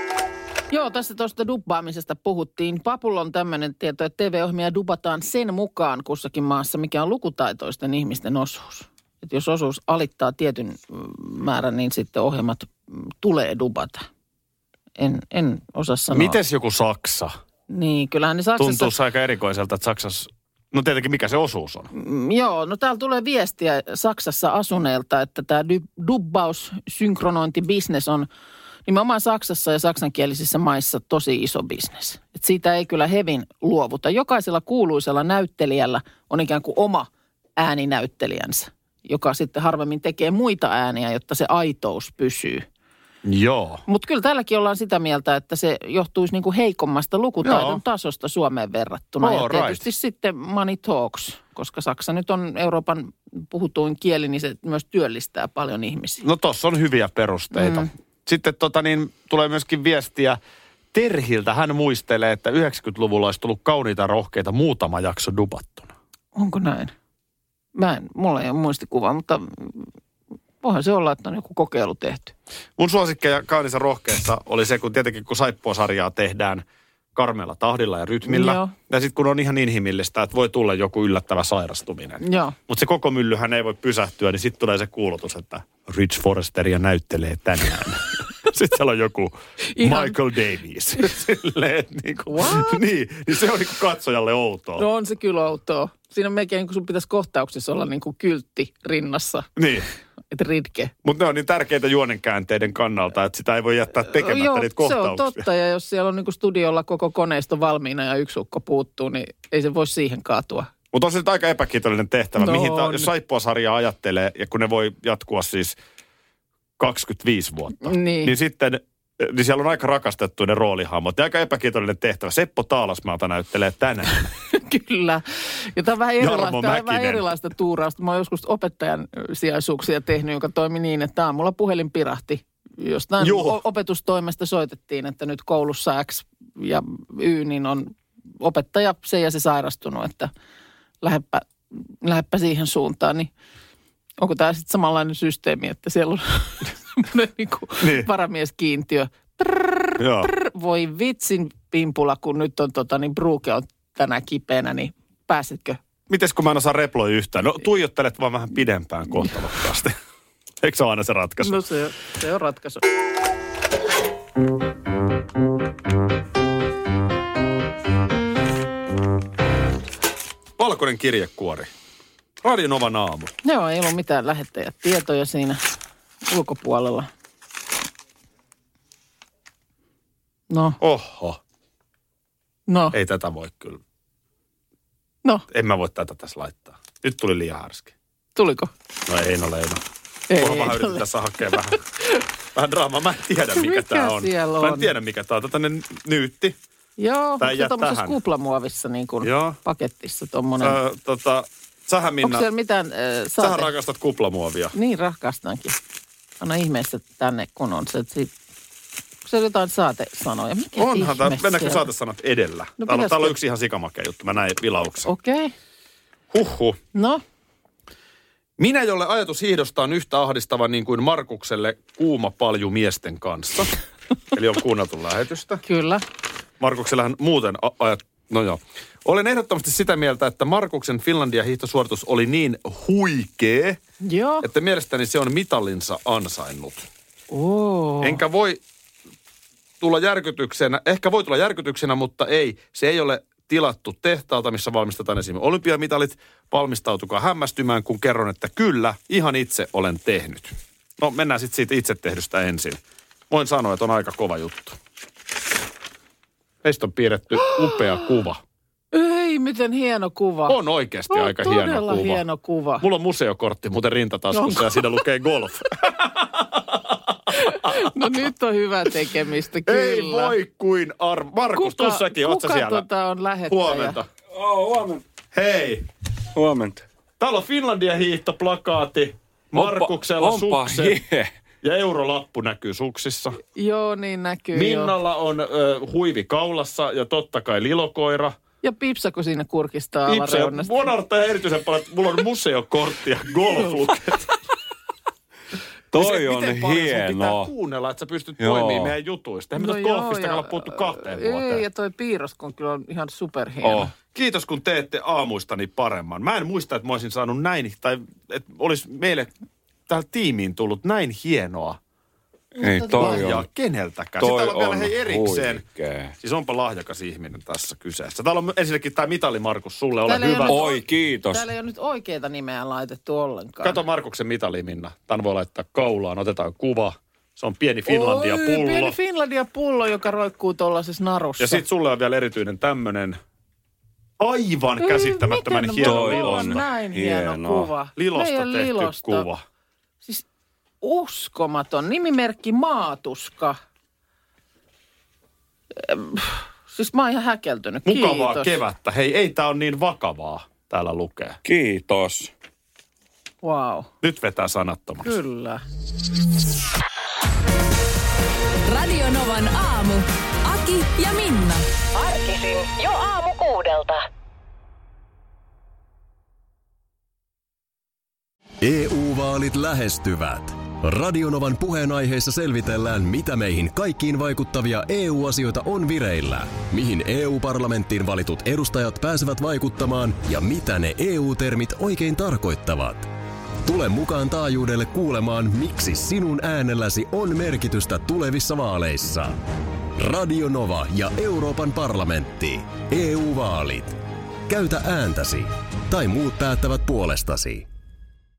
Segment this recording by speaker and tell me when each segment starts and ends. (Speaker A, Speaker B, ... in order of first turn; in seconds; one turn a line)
Speaker A: 0.7-14.1
Speaker A: 15.0-16.4
Speaker B: 16.1-17.3
Speaker A: 17.7-18.9
Speaker B: 18.6-21.9
Speaker A: 21.9-28.3
Speaker A: 28.9-42.6
Speaker B: 43.2-43.8
Speaker A: 43.9-56.2
Speaker B: 47.4-47.8
Speaker B: 49.2-49.8
Speaker B: 56.2-60.4
Speaker A: 57.5-57.9
Speaker B: 60.9-65.9
Speaker A: 66.3-66.9
Speaker A: 67.7-69.9
Speaker A: 70.6-72.3
Speaker B: 72.8-76.6
Speaker B: 77.1-94.8
Speaker A: 78.2-78.7
Speaker A: 82.2-82.5
Speaker A: 89.7-90.2
Speaker A: 92.3-92.8
Speaker A: 94.8-99.5
Speaker B: 99.5-99.9
Speaker A: 100.3-100.9
Speaker B: 101.0-105.4
Speaker A: 104.1-110.7
Speaker B: 110.9-115.8
Speaker A: 112.4-113.1
Speaker B: 116.8-124.3
Speaker A: 117.8-118.3
Speaker A: 124.5-140.3
Speaker B: 126.2-127.2
Speaker B: 133.2-133.6
Speaker A: 141.0-141.5
Speaker A: 142.0-143.3
Speaker A: 144.2-155.8
Speaker B: 147.8-148.1
Speaker B: 150.0-150.3
Speaker B: 156.1-159.9
Speaker B: 160.6-161.6
Speaker A: 161.4-162.8
Speaker B: 170.6-171.7
Speaker B: 172.4-173.3
Speaker A: 173.4-175.6
Speaker A: 176.3-177.1
Speaker A: 180.5-180.8
Speaker B: 180.8-181.4
Speaker A: 182.7-182.9
Speaker B: 182.9-183.8
Speaker B: 185.5-187.9
Speaker A: 188.3-188.7
Speaker B: 189.1-189.8
Speaker A: 190.3-191.1
Speaker B: 190.4-191.8
Speaker B: 192.5-196.6
Speaker A: 193.5-194.9
Speaker A: 197.0-200.8
Speaker B: 197.4-198.2
Speaker B: 199.2-199.6
Speaker B: 200.6-202.4
Speaker A: 202.2-203.7
Speaker B: 203.4-204.7
Speaker A: 204.7-205.8
Speaker A: 206.4-208.3
Speaker A: 209.2-211.8
Speaker B: 210.8-215.1
Speaker A: 212.8-213.3
Speaker A: 215.0-215.5
Speaker B: 216.3-216.8
Speaker A: 216.9-217.2
Speaker B: 218.6-223.7
Speaker B: 224.3-225.6
Speaker A: 225.6-226.0
Speaker B: 226.6-233.8
Speaker A: 234.0-234.4
Speaker B: 234.4-236.9
Speaker A: 237.3-238.2
Speaker B: 238.0-238.6
Speaker B: 239.8-254.8
Speaker B: 256.6-258.4
Speaker A: 257.4-257.7
Speaker A: 258.9-260.6
Speaker B: 260.5-262.2
Speaker A: 261.1-262.8
Speaker B: 262.8-268.2
Speaker A: 264.3-264.8
Speaker A: 267.3-270.4
Speaker B: 269.7-272.8
Speaker A: 271.5-274.0
Speaker B: 273.5-274.1
Speaker C: 274.3-275.0
Speaker B: 275.3-275.9
Speaker C: 276.3-276.8
Speaker B: 277.2-281.0
Speaker C: 279.5-281.3
Speaker B: 281.6-283.4
Speaker A: 283.4-284.9
Speaker B: 284.5-288.4
Speaker A: 288.6-290.8
Speaker B: 290.1-294.3
Speaker A: 293.6-293.8
Speaker C: 295.9-297.5
Speaker B: 295.9-301.6
Speaker C: 298.4-298.9
Speaker A: 299.6-303.9
Speaker C: 303.6-303.9
Speaker B: 304.1-309.3
Speaker B: 309.9-311.8
Speaker A: 312.6-313.3
Speaker C: 312.6-313.5
Speaker B: 313.0-315.6
Speaker C: 314.2-316.1
Speaker B: 316.2-320.6
Speaker A: 320.1-323.8
Speaker C: 320.4-321.5
Speaker B: 323.6-328.9
Speaker A: 327.9-331.6
Speaker B: 331.4-333.2
Speaker B: 334.2-336.6
Speaker A: 334.8-339.2
Speaker C: 335.8-337.7
Speaker B: 337.9-339.4
Speaker A: 340.8-343.6
Speaker A: 345.8-348.6
Speaker B: 347.9-351.4
Speaker C: 351.4-352.3
Speaker A: 353.4-353.9
Speaker B: 354.0-355.1
Speaker A: 355.0-355.6
Speaker D: 358.7-361.7
Speaker E: 361.9-364.0
Speaker F: 368.6-383.1
Speaker F: 383.6-389.4
Speaker F: 389.9-397.7